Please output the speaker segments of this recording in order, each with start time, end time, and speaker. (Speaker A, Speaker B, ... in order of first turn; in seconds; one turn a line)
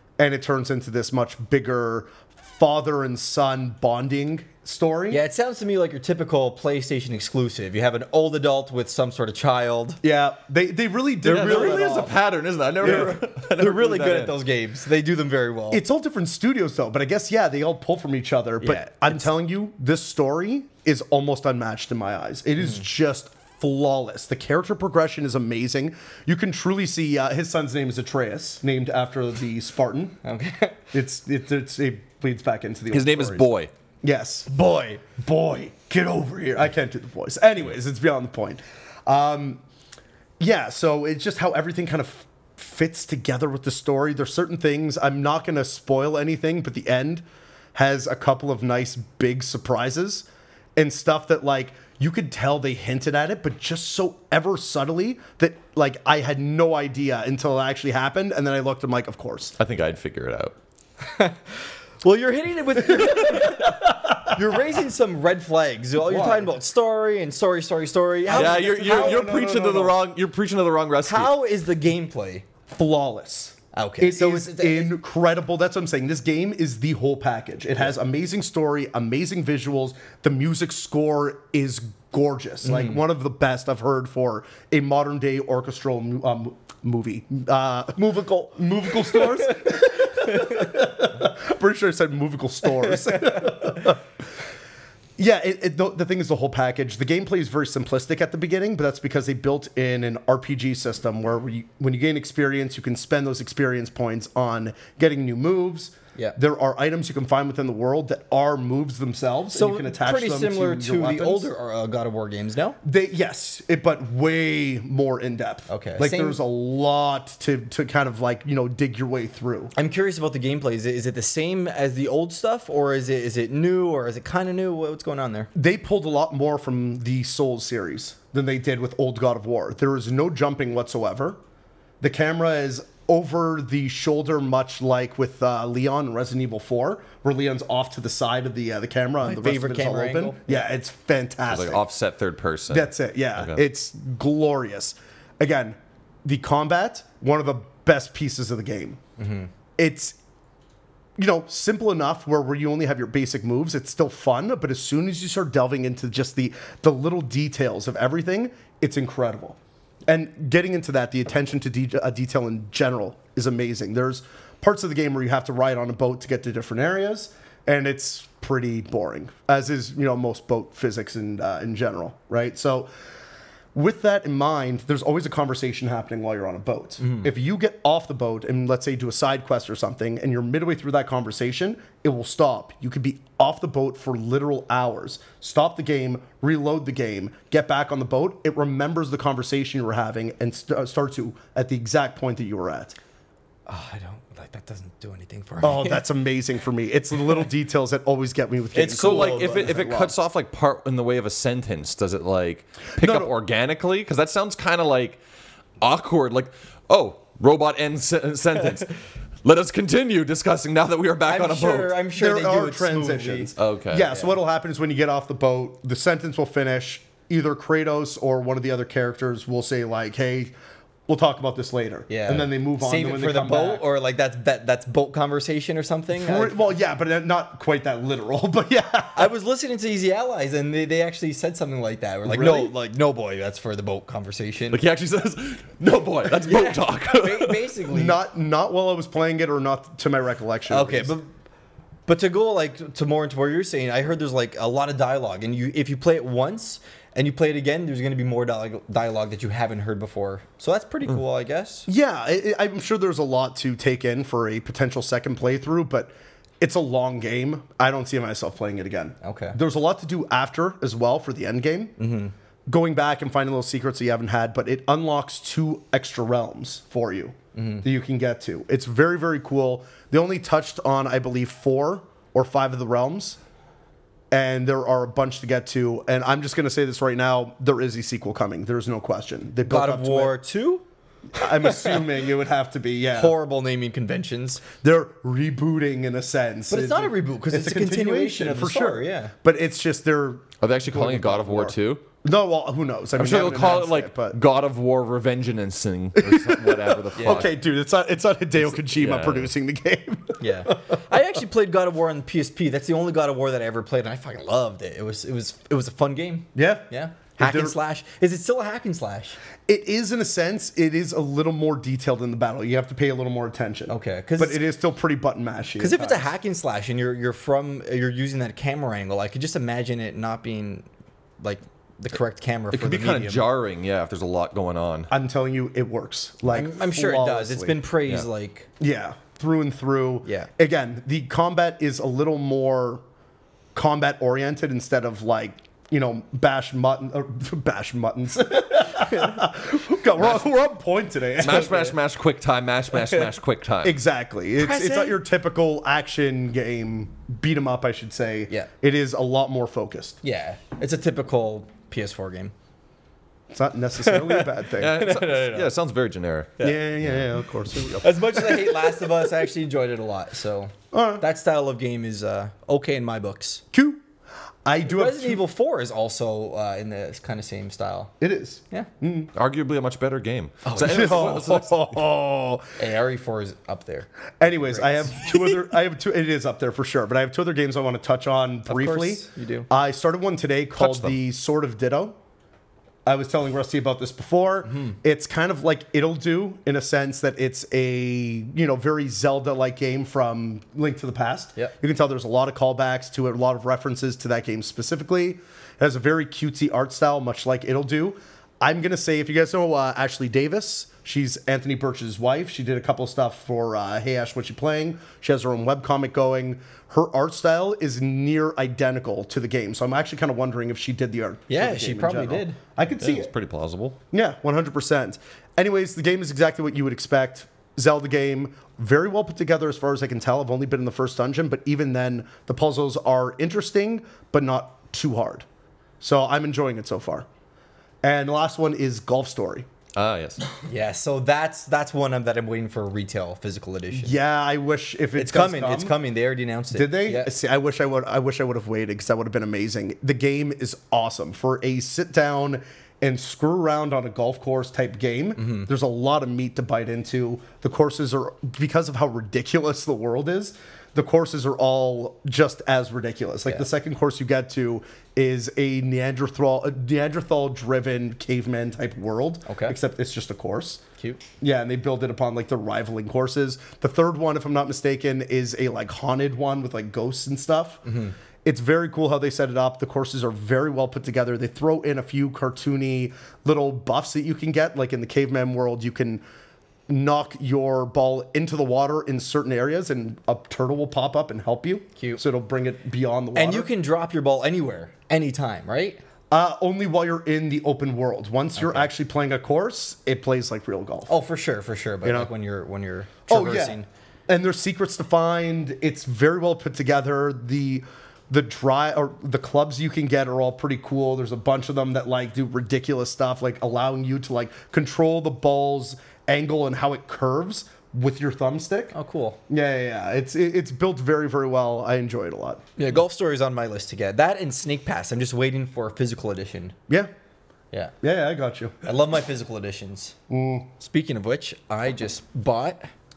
Speaker A: 0.2-5.2
Speaker B: 5.1-10.0
Speaker A: 10.0-12.1
Speaker C: 11.2-14.4
Speaker B: 11.3-12.1
Speaker B: 12.8-15.8
Speaker A: 12.8-13.2
Speaker A: 15.7-30.2
Speaker B: 18.6-19.3
Speaker B: 30.2-30.8
Speaker A: 30.9-33.5
Speaker C: 32.9-33.7
Speaker A: 34.0-34.5
Speaker B: 34.5-35.0
Speaker A: 35.0-39.6
Speaker A: 40.4-47.2
Speaker A: 47.8-59.5
Speaker C: 59.6-60.5
Speaker B: 61.0-69.3
Speaker A: 63.0-64.3
Speaker A: 66.0-66.5
Speaker A: 68.2-70.0
Speaker C: 68.3-71.3
Speaker B: 71.1-72.5
Speaker A: 72.7-94.0
Speaker B: 73.7-75.0
Speaker B: 82.6-83.0
Speaker B: 90.3-90.6
Speaker A: 95.2-111.5
Speaker B: 109.5-112.8
Speaker A: 112.8-119.7
Speaker B: 115.7-116.4
Speaker B: 119.8-125.5
Speaker A: 125.5-131.4
Speaker A: 132.0-141.8
Speaker B: 139.2-140.6
Speaker C: 141.5-143.6
Speaker A: 142.7-149.0
Speaker B: 149.2-149.5
Speaker A: 149.8-150.2
Speaker A: 151.2-172.9
Speaker A: 173.7-193.0
Speaker B: 177.0-177.3
Speaker B: 193.7-196.1
Speaker A: 195.6-200.2
Speaker B: 198.7-199.8
Speaker C: 198.9-205.2
Speaker A: 203.0-203.3
Speaker C: 205.8-208.9
Speaker C: 209.4-211.9
Speaker B: 211.3-213.5
Speaker A: 212.2-220.5
Speaker C: 213.6-214.1
Speaker A: 221.1-223.8
Speaker B: 222.1-226.6
Speaker A: 226.1-229.3
Speaker B: 229.2-234.8
Speaker A: 232.2-232.8
Speaker C: 234.7-237.7
Speaker B: 236.4-238.2
Speaker A: 237.9-241.1
Speaker B: 240.7-241.3
Speaker B: 242.1-251.9
Speaker A: 251.9-262.0
Speaker B: 259.2-259.6
Speaker B: 262.0-262.3
Speaker A: 262.7-273.4
Speaker B: 267.6-267.9
Speaker A: 274.3-280.4
Speaker B: 279.6-280.8
Speaker A: 281.4-283.4
Speaker B: 281.6-282.0
Speaker B: 283.1-284.6
Speaker A: 284.8-294.4
Speaker B: 286.7-289.3
Speaker C: 290.6-292.0
Speaker C: 293.2-297.5
Speaker A: 296.2-301.0
Speaker B: 297.2-297.5
Speaker C: 298.7-299.5
Speaker B: 300.4-309.4
Speaker A: 306.6-306.9
Speaker A: 307.4-307.8
Speaker A: 309.7-316.3
Speaker B: 313.9-314.6
Speaker B: 315.8-320.9
Speaker B: 321.4-323.4
Speaker C: 322.7-325.1
Speaker A: 325.1-327.8
Speaker B: 326.5-328.7
Speaker A: 328.8-333.0
Speaker B: 330.2-330.5
Speaker A: 333.8-341.9
Speaker C: 341.4-344.0
Speaker A: 343.8-350.2
Speaker B: 344.6-345.2
Speaker B: 350.2-352.5
Speaker A: 353.5-355.0
Speaker B: 354.0-355.7
Speaker C: 354.8-357.3
Speaker A: 356.6-359.1
Speaker B: 358.0-363.6
Speaker A: 360.9-361.2
Speaker A: 363.7-364.0
Speaker A: 364.6-365.4
Speaker B: 364.8-368.1
Speaker A: 368.2-369.3
Speaker C: 369.4-371.9
Speaker B: 370.7-371.2
Speaker A: 370.8-372.7
Speaker B: 372.8-375.3
Speaker A: 374.4-382.2
Speaker B: 378.7-379.7
Speaker C: 380.8-381.1
Speaker A: 383.1-413.3
Speaker B: 384.6-385.0
Speaker B: 411.5-412.6
Speaker C: 413.0-414.0
Speaker A: 414.1-425.4
Speaker A: 426.0-427.3
Speaker A: 428.0-429.7
Speaker C: 430.0-430.4
Speaker B: 430.7-434.2
Speaker A: 433.9-435.9
Speaker B: 435.2-437.3
Speaker A: 436.7-460.8
Speaker B: 445.4-445.7
Speaker B: 459.5-459.8
Speaker A: 461.4-467.8
Speaker B: 467.9-468.1
Speaker A: 468.4-476.2
Speaker A: 476.9-483.7
Speaker B: 482.0-482.2
Speaker B: 483.4-486.0
Speaker A: 486.3-491.1
Speaker B: 488.6-488.9
Speaker B: 491.1-493.9
Speaker A: 492.0-492.3
Speaker A: 493.3-508.9
Speaker B: 508.9-509.4
Speaker A: 509.5-512.6
Speaker B: 512.8-516.8
Speaker A: 518.0-518.8
Speaker B: 518.8-520.1
Speaker A: 520.3-520.7
Speaker B: 520.8-522.9